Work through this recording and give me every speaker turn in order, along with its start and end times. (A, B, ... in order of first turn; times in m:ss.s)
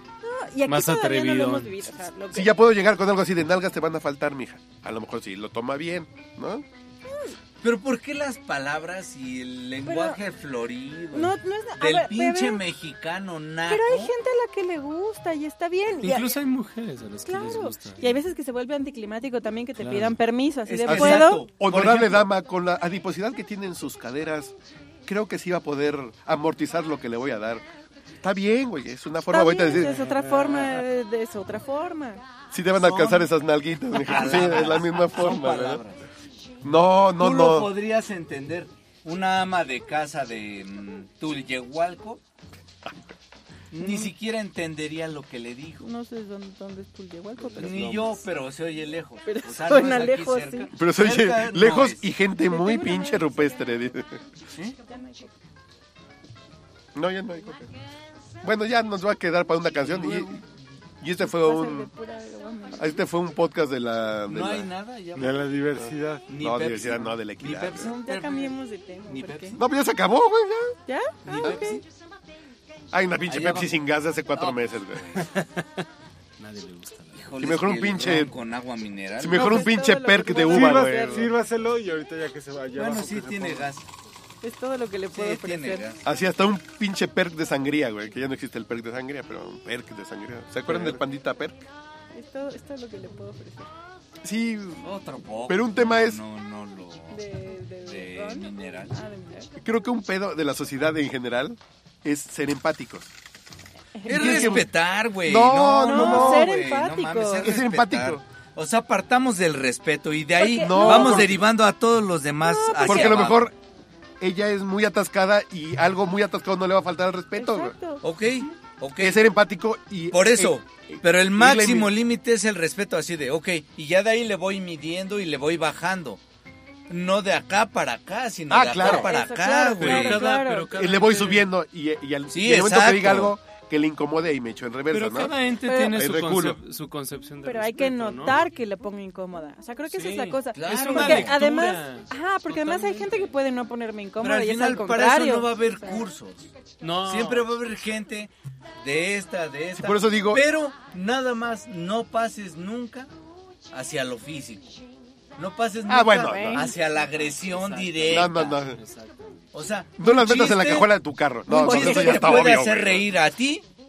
0:00.2-0:02.6 A
0:00.7-0:01.9 B
0:02.3-0:06.6 C
0:07.1-0:07.4 A
0:07.6-0:14.1 D
0:09.8-0:10.2 A
0:11.1-0:12.6 A
0:13.7-0:16.4 A
0:16.0-0:18.2 B
0:17.2-0:21.4 A
0:19.8-0:20.2 B
0:20.7-0:22.3 D
0:20.9-0:24.5 C
0:25.1-0:27.6 C
0:28.2-0:30.1 C
0:29.3-0:32.2 A
0:32.5-0:35.8 C
0:32.8-0:33.3 D
0:34.0-0:36.0 D
0:36.6-0:37.7 C
0:37.2-0:42.2 D
0:42.8-0:43.2 C
0:43.7-0:45.8 D
0:43.8-0:44.1 A
0:45.8-0:48.1 A
0:47.6-0:52.1 D
0:47.6-0:48.2 C
0:49.2-0:50.7 A
0:50.7-0:54.2 C
0:52.4-0:53.5 A
0:54.8-0:55.4 A
0:57.0-0:57.7 C
0:58.4-1:00.4 C
0:59.8-1:00.4 D
1:01.0-1:01.9 C
1:01.2-1:03.0 A
1:02.8-1:04.7 C
1:04.3-1:05.6 D
1:05.2-1:06.2 E
1:05.8-1:07.9 C
1:06.3-1:08.6 D
1:07.8-1:09.6 A
1:09.1-1:09.6 D
1:09.6-1:10.8 C
1:10.9-1:11.8 A
1:11.3-1:11.8 D
1:11.3-1:11.8 B
1:12.9-1:15.2 C
1:13.3-1:13.8 D
1:14.3-1:15.2 D
1:15.2-1:15.9 B
1:16.4-1:17.4 B
1:17.2-1:19.6 D
1:17.4-1:18.3 C
1:19.2-1:21.3 C
1:19.3-1:21.3 A
1:20.4-1:23.7 E
1:22.8-1:23.9 D
1:24.4-1:25.8 A
1:25.1-1:26.0 D
1:26.0-1:31.7 C
1:32.1-1:33.7 A
1:34.2-1:34.8 C
1:34.8-1:39.0 D
1:35.5-1:36.2 C
1:37.1-1:39.6 A
1:39.6-1:43.1 C
1:44.0-1:44.6 A
1:44.1-1:44.7 C
1:44.1-1:53.5 D
1:45.2-1:46.5 C
1:45.8-1:47.5 A
1:47.4-1:48.2 C
1:50.4-1:51.3 A
1:50.6-1:51.4 C
1:52.4-1:53.2 A
1:52.8-1:53.5 C
1:54.2-1:57.8 C
1:57.4-1:58.0 A
1:58.0-1:59.2 D
1:59.0-2:01.9 C
2:00.1-2:06.2 D
2:06.9-2:10.2 D
2:08.5-2:09.1 C
2:08.8-2:10.7 A
2:09.8-2:11.5 B
2:10.7-2:15.3 C
2:12.3-2:13.4 D
2:14.9-2:18.4 B
2:15.7-2:16.0 A
2:15.9-2:16.6 C
2:17.4-2:26.1 A
2:19.9-2:23.4 B
2:20.6-2:21.7 D
2:24.2-2:26.5 D
2:26.8-2:27.5 B
2:27.0-2:33.1 D
2:29.8-2:30.4 C
2:33.7-2:34.8 D
2:35.4-2:38.6 D
2:35.9-2:36.7 C
2:36.2-2:36.7 A
2:37.0-2:39.5 B
2:38.1-2:38.8 C
2:39.5-2:40.9 D
2:40.0-2:43.1 C
2:41.5-2:42.6 A
2:41.5-2:43.6 D